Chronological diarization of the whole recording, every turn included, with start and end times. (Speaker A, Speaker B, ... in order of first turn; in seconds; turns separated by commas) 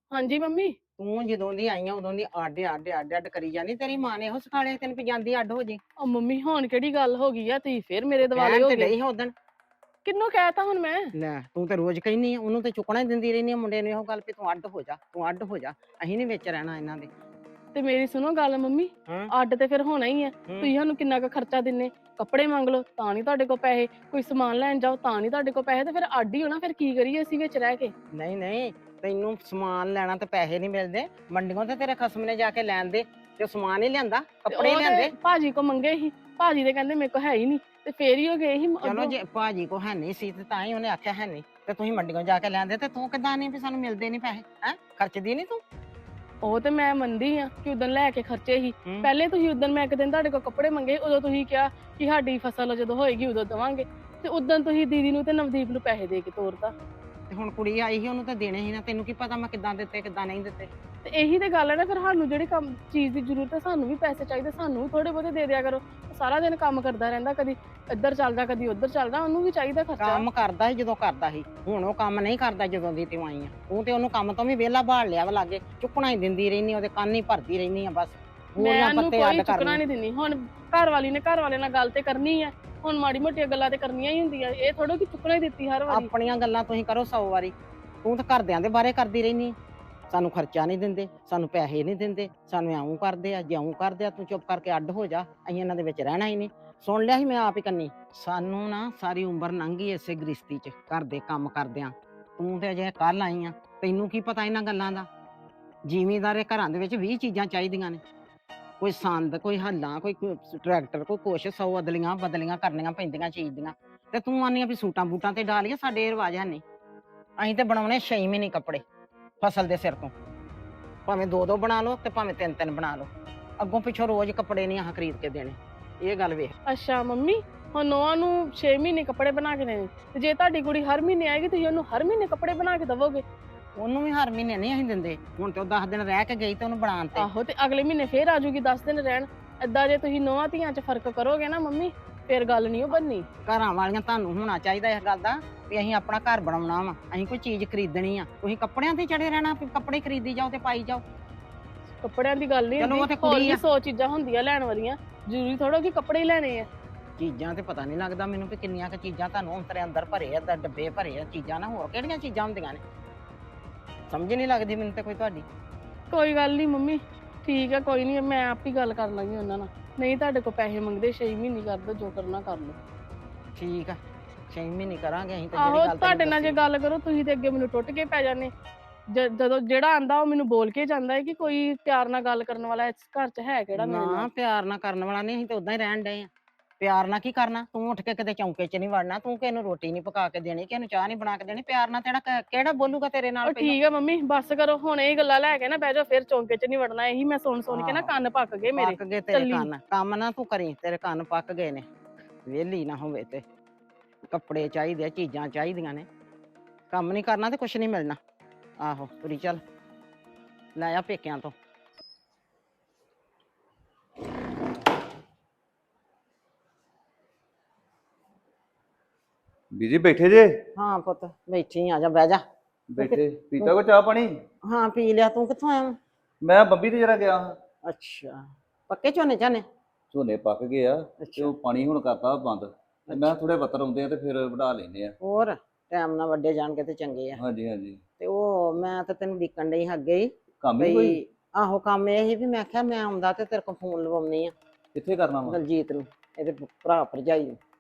Speaker A: 0.1-0.8, Speaker B: 1.0-5.8, Speaker A: 6.0-8.9, Speaker B: 8.2-9.3, Speaker A: 10.1-11.1, Speaker B: 11.1-17.1, Speaker A: 17.8-27.9, Speaker B: 28.1-35.1, Speaker A: 34.5-39.1, Speaker B: 38.8-45.6, Speaker A: 46.4-56.7, Speaker B: 57.3-60.7, Speaker A: 61.0-70.2, Speaker B: 70.0-79.8, Speaker A: 78.6-86.1, Speaker B: 85.9-89.6, Speaker B: 90.1-105.1, Speaker B: 105.8-108.0, Speaker B: 108.8-116.6, Speaker B: 117.4-118.8, Speaker B: 119.4-120.1, Speaker B: 121.1-126.5, Speaker A: 126.7-133.2, Speaker B: 133.8-137.3, Speaker A: 137.2-143.3, Speaker B: 143.4-151.0, Speaker A: 152.0-156.7, Speaker B: 152.8-153.6, Speaker B: 157.2-162.8, Speaker B: 164.1-165.5, Speaker A: 166.1-172.8, Speaker B: 173.6-174.0, Speaker B: 174.5-176.6, Speaker A: 175.6-178.5, Speaker A: 179.1-184.2, Speaker B: 183.8-193.8, Speaker A: 193.5-199.7, Speaker B: 197.7-198.1, Speaker B: 198.8-201.8, Speaker B: 202.4-203.4, Speaker B: 204.3-206.1, Speaker B: 206.9-208.2, Speaker B: 208.8-209.6, Speaker B: 210.8-211.5, Speaker C: 219.7-220.6, Speaker B: 220.8-222.4, Speaker C: 222.9-224.4, Speaker B: 223.0-223.8, Speaker B: 224.6-226.0, Speaker C: 226.4-227.6, Speaker B: 227.8-229.7, Speaker C: 230.1-235.2, Speaker B: 231.2-231.5, Speaker B: 233.1-233.3, Speaker B: 235.2-237.4, Speaker C: 237.3-238.0, Speaker B: 238.2-244.5, Speaker C: 240.6-241.2, Speaker C: 244.9-245.6, Speaker B: 245.5-247.6